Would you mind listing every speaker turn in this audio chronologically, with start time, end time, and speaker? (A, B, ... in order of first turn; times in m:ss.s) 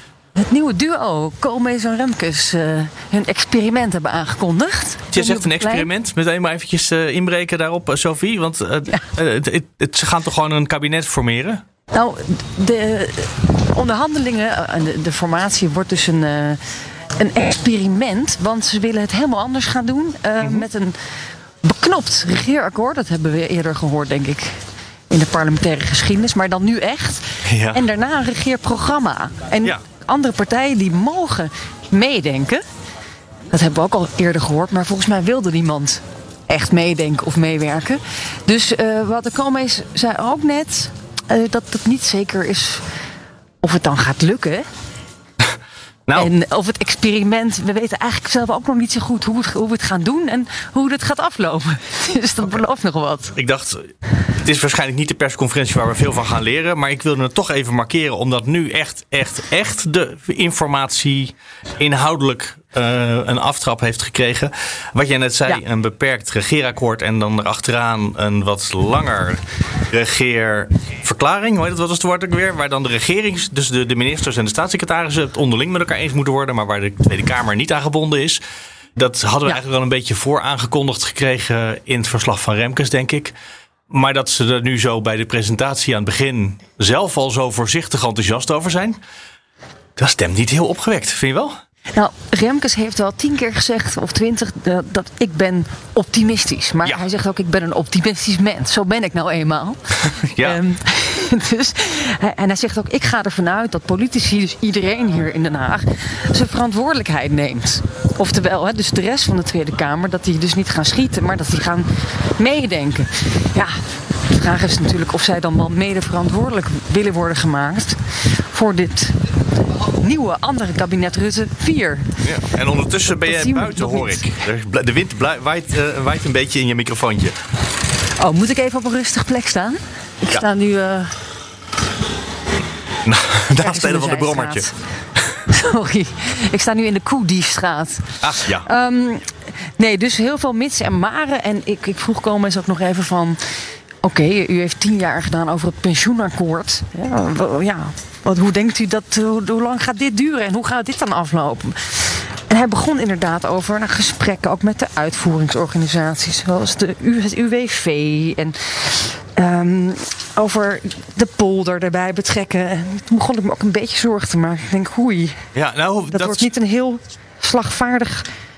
0:00.3-0:05.9 A
0:05.1-0:11.6 B
0:11.9-0:16.6 A
0:17.2-0:20.9 A
0:20.4-0:20.7 B
0:21.6-0:24.6 A
0:25.1-0:32.6 A
0:27.5-0:27.8 B
0:33.5-0:42.8 A
0:43.6-0:44.7 A
0:46.1-0:53.3 A
0:53.3-1:18.4 B
1:19.0-1:23.3 B
1:23.9-1:29.0 B
1:30.0-1:31.6 B
1:31.9-2:02.1 A
1:40.2-1:40.6 B
2:02.2-2:07.3 B
2:03.2-2:04.2 A
2:08.2-2:11.2 A
2:13.0-2:14.7 B
2:13.6-2:14.7 A
2:15.5-2:23.4 A
2:18.2-2:18.7 B
2:24.0-2:45.4 A
2:45.5-2:46.5 B
2:46.1-2:48.2 A